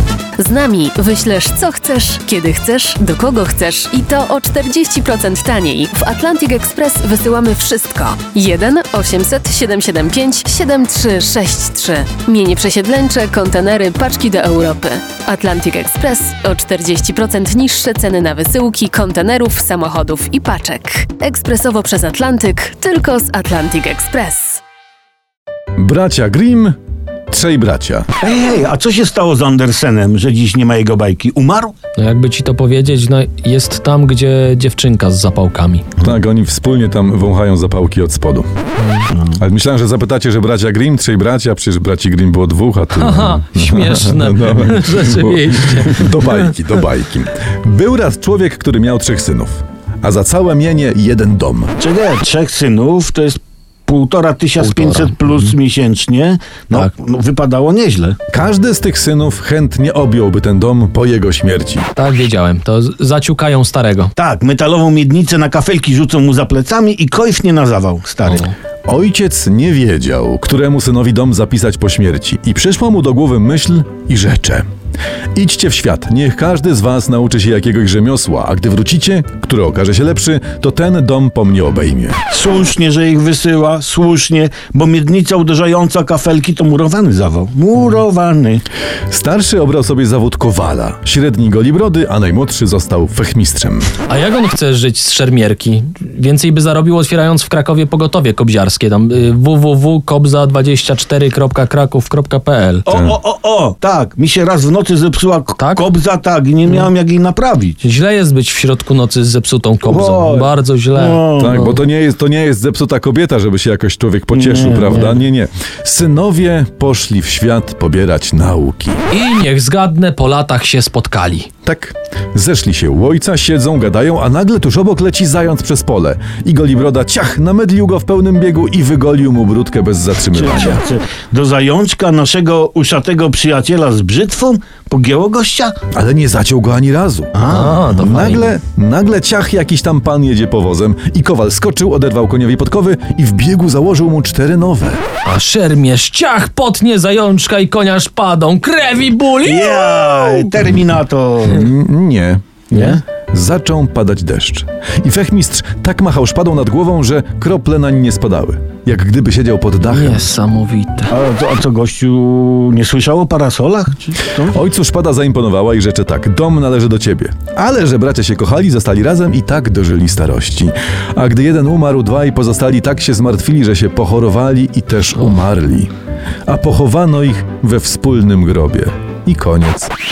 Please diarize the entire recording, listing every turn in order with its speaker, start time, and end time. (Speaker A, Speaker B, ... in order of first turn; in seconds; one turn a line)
Speaker A: 0.4-24.6
Speaker B: 25.8-26.8
Speaker B: 27.3-28.1
Speaker C: 28.2-31.7
Speaker D: 32.0-35.9
Speaker B: 36.0-38.5
Speaker D: 38.8-39.1
Speaker C: 39.1-39.4
Speaker B: 39.3-51.7
Speaker D: 43.0-46.5
Speaker C: 51.8-58.2
Speaker D: 54.6-55.5
Speaker B: 58.3-61.9
Speaker D: 62.0-64.1
Speaker C: 64.2-68.5
Speaker D: 68.3-68.5
Speaker B: 68.9-74.6
Speaker B: 75.3-82.2
Speaker C: 82.3-88.6
Speaker B: 89.1-93.9
Speaker D: 94.1-102.8
Speaker C: 102.8-107.8
Speaker B: 102.9-103.2
Speaker D: 105.6-105.8
Speaker D: 107.8-111.7
Speaker C: 109.9-111.7
Speaker B: 111.4-119.0
Speaker C: 114.3-115.2
Speaker D: 114.8-115.1
Speaker D: 119.1-121.5
Speaker B: 121.6-130.8
Speaker C: 130.3-135.8
Speaker B: 135.9-145.0
Speaker C: 137.3-137.9
Speaker D: 137.4-138.5
Speaker D: 145.2-150.5
Speaker C: 149.4-151.7
Speaker B: 151.5-152.6
Speaker C: 152.7-153.0
Speaker B: 153.2-160.3
Speaker D: 159.9-161.1
Speaker C: 161.1-164.6
Speaker B: 164.5-175.9
Speaker B: 176.5-179.9